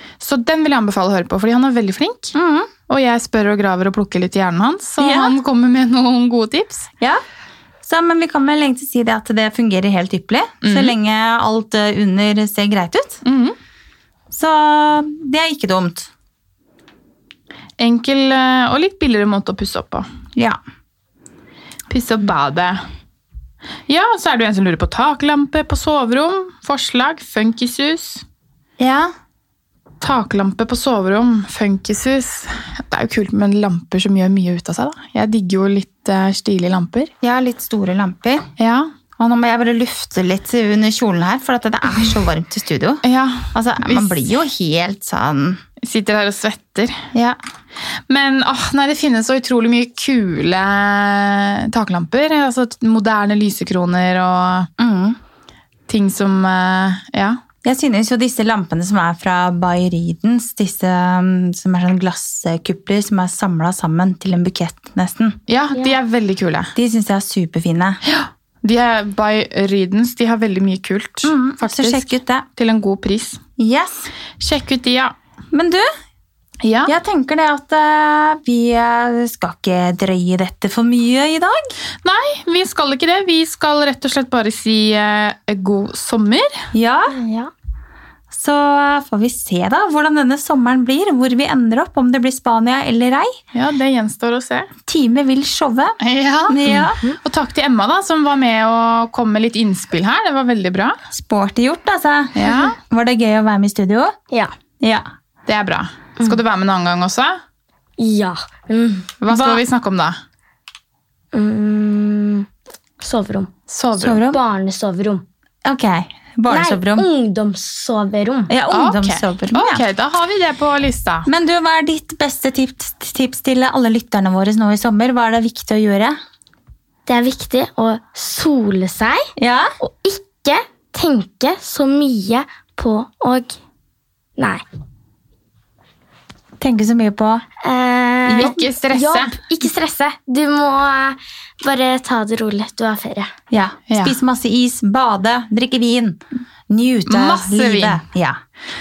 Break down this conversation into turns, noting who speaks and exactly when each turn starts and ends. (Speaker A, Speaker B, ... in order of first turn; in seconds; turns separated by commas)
Speaker A: 0.2-2.3, Speaker B: 2.4-2.7, Speaker A: 2.9-6.9, Speaker B: 5.0-5.3, Speaker B: 7.8-13.2, Speaker A: 10.6-11.0, Speaker A: 13.2-13.6, Speaker B: 14.3-16.1, Speaker A: 17.8-20.1, Speaker A: 21.9-22.8, Speaker A: 23.9-28.2, Speaker B: 28.8-29.1, Speaker A: 30.0-37.1, Speaker B: 37.2-38.5, Speaker A: 38.6-38.9, Speaker B: 39.2-45.6, Speaker A: 43.0-44.2, Speaker A: 45.8-47.0, Speaker B: 47.1-47.4, Speaker A: 48.1-54.7, Speaker B: 54.8-55.2, Speaker A: 55.9-57.4, Speaker B: 57.6-65.4, Speaker A: 65.5-66.7, Speaker B: 66.8-68.0, Speaker A: 68.1-73.4, Speaker B: 71.2-72.5, Speaker B: 73.6-74.1, Speaker A: 74.4-75.1, Speaker B: 75.5-75.9, Speaker A: 76.6-76.9, Speaker B: 76.9-81.6, Speaker A: 82.0-86.7, Speaker B: 86.7-87.2, Speaker C: 87.1-87.5, Speaker B: 88.3-93.3, Speaker A: 93.5-94.7, Speaker B: 94.9-97.0, Speaker A: 96.0-101.0, Speaker B: 101.1-104.1, Speaker A: 102.4-102.8, Speaker A: 105.5-107.4, Speaker C: 108.0-109.1, Speaker A: 109.2-110.2, Speaker B: 109.3-109.6, Speaker C: 111.3-112.5, Speaker C: 113.0-113.5, Speaker A: 113.7-114.2, Speaker B: 114.0-114.4, Speaker C: 114.3-115.2, Speaker B: 115.7-117.1, Speaker C: 116.5-118.5, Speaker B: 118.5-119.8, Speaker A: 118.7-121.3, Speaker B: 121.3-126.2, Speaker C: 127.1-129.3, Speaker B: 129.4-129.7, Speaker C: 129.8-133.6, Speaker C: 134.4-134.6, Speaker B: 136.6-137.4, Speaker C: 137.6-143.3, Speaker B: 138.3-138.6, Speaker A: 138.4-139.4, Speaker B: 143.5-148.4, Speaker A: 143.9-144.2, Speaker A: 147.1-148.0